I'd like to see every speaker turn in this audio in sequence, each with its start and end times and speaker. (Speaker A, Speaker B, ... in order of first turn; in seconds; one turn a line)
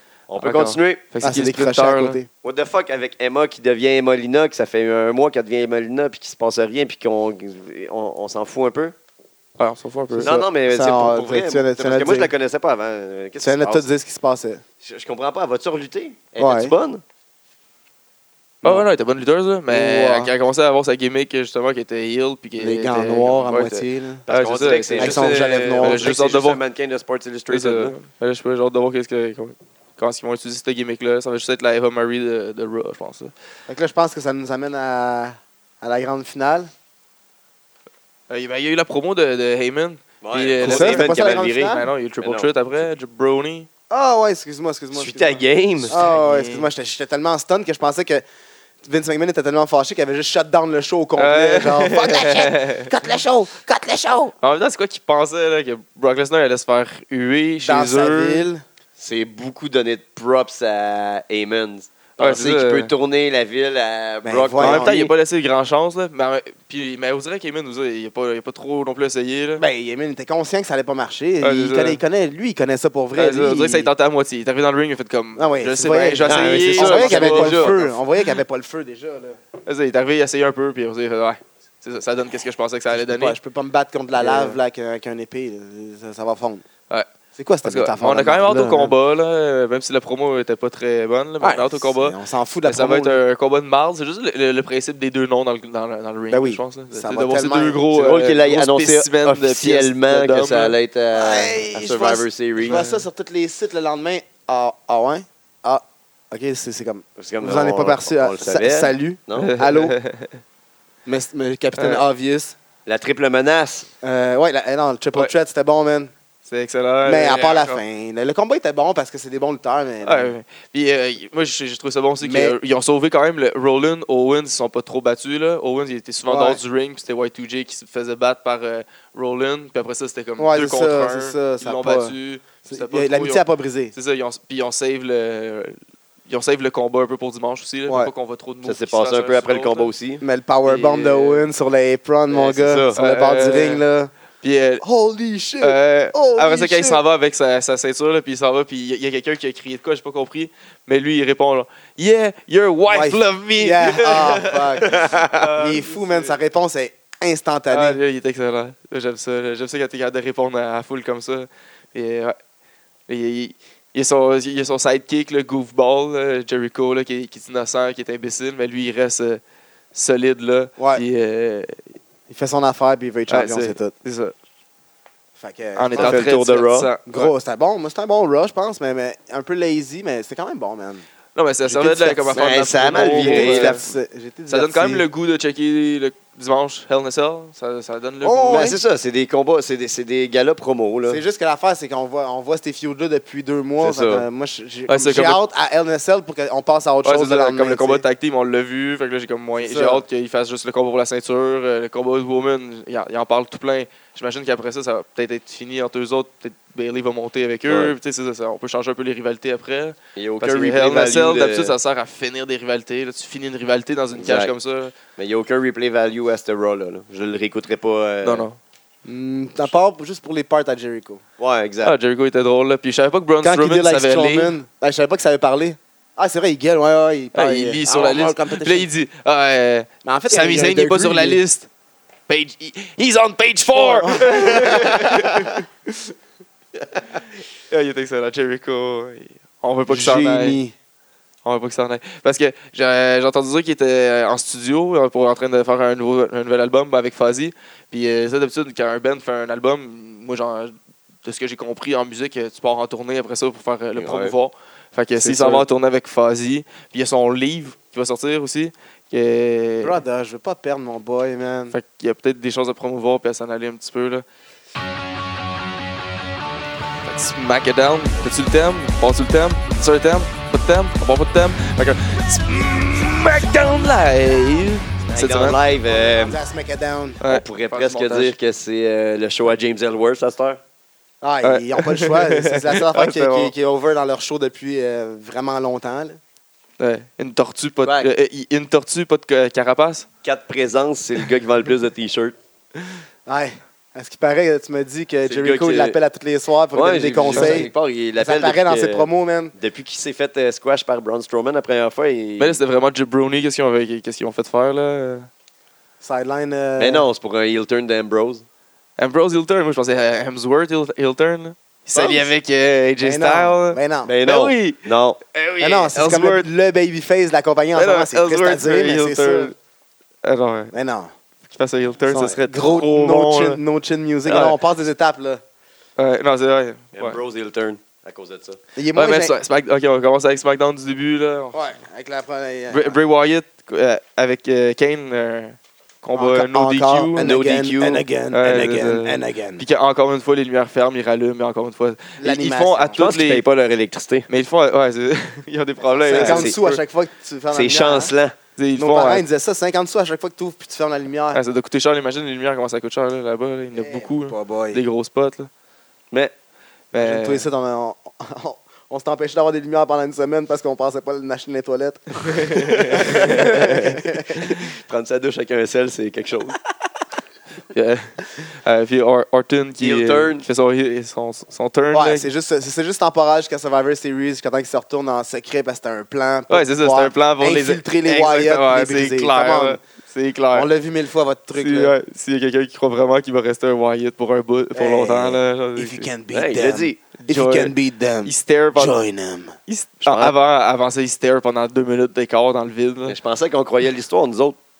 Speaker A: 0.3-1.0
Speaker B: 0.4-2.2
Speaker C: 1.2-2.3
Speaker A: 2.4-8.9
Speaker B: 9.6-10.4
Speaker C: 10.1-12.3
Speaker A: 10.2-13.9
Speaker C: 13.4-14.6
Speaker A: 14.8-17.0
Speaker C: 16.4-16.8
Speaker B: 18.6-26.6
Speaker C: 19.7-20.3
Speaker C: 22.6-24.2
Speaker A: 24.3-27.9
Speaker C: 25.0-26.0
Speaker B: 27.5-33.3
Speaker C: 33.7-36.7
Speaker B: 38.3-43.7
Speaker A: 40.2-42.5
Speaker C: 40.6-41.9
Speaker C: 43.9-48.2
Speaker A: 45.0-45.9
Speaker B: 45.9-46.7
Speaker C: 48.8-54.3
Speaker B: 51.2-52.9
Speaker B: 54.4-58.5
Speaker C: 57.6-58.6
Speaker A: 59.0-65.1
Speaker B: 62.2-62.9
Speaker C: 64.2-65.1
Speaker B: 64.6-69.6
Speaker C: 69.6-73.9
Speaker B: 71.4-72.0
Speaker B: 73.2-78.0
Speaker C: 75.4-79.4
Speaker A: 76.2-77.8
Speaker B: 79.7-83.4
Speaker C: 82.9-86.7
Speaker B: 84.2-84.6
Speaker C: 87.4-88.9
Speaker B: 87.6-100.8
Speaker C: 91.4-93.2
Speaker C: 96.3-97.8
Speaker A: 97.9-102.8
Speaker C: 101.2-110.0
Speaker B: 102.7-103.0
Speaker A: 107.2-109.5
Speaker B: 109.4-110.4
Speaker C: 111.1-112.5
Speaker B: 111.8-112.0
Speaker A: 112.9-113.9
Speaker C: 114.0-116.1
Speaker B: 116.5-117.8
Speaker C: 117.0-120.3
Speaker B: 120.0-139.9
Speaker C: 122.2-122.6
Speaker C: 126.3-126.6
Speaker C: 130.4-132.2
Speaker C: 132.7-133.9
Speaker A: 138.6-140.2
Speaker C: 140.2-144.1
Speaker B: 140.7-141.5
Speaker A: 142.3-143.0
Speaker B: 143.0-143.8
Speaker B: 144.4-144.8
Speaker C: 144.8-147.0
Speaker B: 145.6-156.3
Speaker C: 152.9-158.0
Speaker B: 157.7-162.4
Speaker B: 163.1-169.4
Speaker B: 169.9-171.8
Speaker C: 170.8-171.0
Speaker C: 172.3-173.9
Speaker B: 173.3-174.3
Speaker C: 175.4-176.3
Speaker B: 175.8-177.3
Speaker A: 176.0-176.9
Speaker C: 177.1-181.1
Speaker B: 181.4-183.8
Speaker C: 181.7-182.4
Speaker A: 182.3-183.8
Speaker C: 183.1-185.1
Speaker B: 184.5-188.7
Speaker C: 188.2-188.8
Speaker A: 188.5-191.2
Speaker C: 191.1-198.0
Speaker A: 193.8-194.3
Speaker B: 194.9-195.4
Speaker B: 197.1-214.9
Speaker C: 199.6-200.0
Speaker A: 207.7-207.9
Speaker A: 210.2-211.8
Speaker A: 214.2-214.5
Speaker A: 215.2-218.5
Speaker B: 218.2-218.6
Speaker C: 219.1-221.2
Speaker A: 221.4-221.9
Speaker B: 221.8-224.5
Speaker C: 223.4-228.9
Speaker B: 227.3-231.7
Speaker C: 230.1-231.4
Speaker B: 232.3-235.7
Speaker C: 233.7-235.6
Speaker B: 237.7-240.6
Speaker C: 239.9-240.7
Speaker B: 241.4-260.0
Speaker A: 254.0-254.3
Speaker C: 255.2-255.7
Speaker C: 259.8-261.8
Speaker B: 261.7-264.2
Speaker B: 267.0-275.6
Speaker A: 275.1-276.4
Speaker C: 275.9-277.2
Speaker B: 277.2-278.4
Speaker A: 277.2-280.6
Speaker C: 281.2-286.2
Speaker B: 281.4-283.5
Speaker B: 286.8-290.1
Speaker A: 287.9-288.1
Speaker A: 290.2-292.4
Speaker C: 293.3-299.5
Speaker A: 295.2-296.0
Speaker A: 296.7-302.6
Speaker B: 297.3-297.7
Speaker B: 302.4-305.3
Speaker C: 306.0-307.1
Speaker A: 306.8-308.4
Speaker B: 309.0-314.8
Speaker A: 311.9-312.3
Speaker C: 313.0-314.1
Speaker A: 314.1-315.2
Speaker B: 315.3-316.5
Speaker C: 315.6-319.5
Speaker B: 317.8-319.5
Speaker B: 320.2-320.7
Speaker C: 320.7-321.1
Speaker B: 321.5-323.6
Speaker C: 322.1-325.4
Speaker B: 324.3-324.6
Speaker B: 326.0-327.2
Speaker A: 326.9-328.6
Speaker C: 328.8-329.4
Speaker B: 328.9-331.6
Speaker C: 331.5-333.0
Speaker B: 332.7-337.3
Speaker C: 336.1-339.6
Speaker A: 337.2-338.0
Speaker B: 338.3-343.4
Speaker C: 342.2-343.1
Speaker A: 343.0-344.3
Speaker B: 344.3-346.8
Speaker C: 346.0-348.1
Speaker A: 346.1-346.6
Speaker A: 347.5-348.4
Speaker B: 348.6-349.2
Speaker C: 348.8-351.4
Speaker B: 351.3-355.5
Speaker C: 353.8-354.8
Speaker B: 356.9-357.5
Speaker C: 357.0-364.6
Speaker B: 362.6-364.0
Speaker A: 364.4-366.6
Speaker B: 367.7-372.3
Speaker A: 369.8-370.5
Speaker C: 371.9-379.8
Speaker B: 376.5-380.7
Speaker C: 380.5-381.9
Speaker B: 381.5-386.1
Speaker C: 384.8-389.6
Speaker A: 386.3-387.0
Speaker B: 387.2-389.0
Speaker B: 389.7-393.2
Speaker A: 390.1-390.4
Speaker A: 393.1-394.6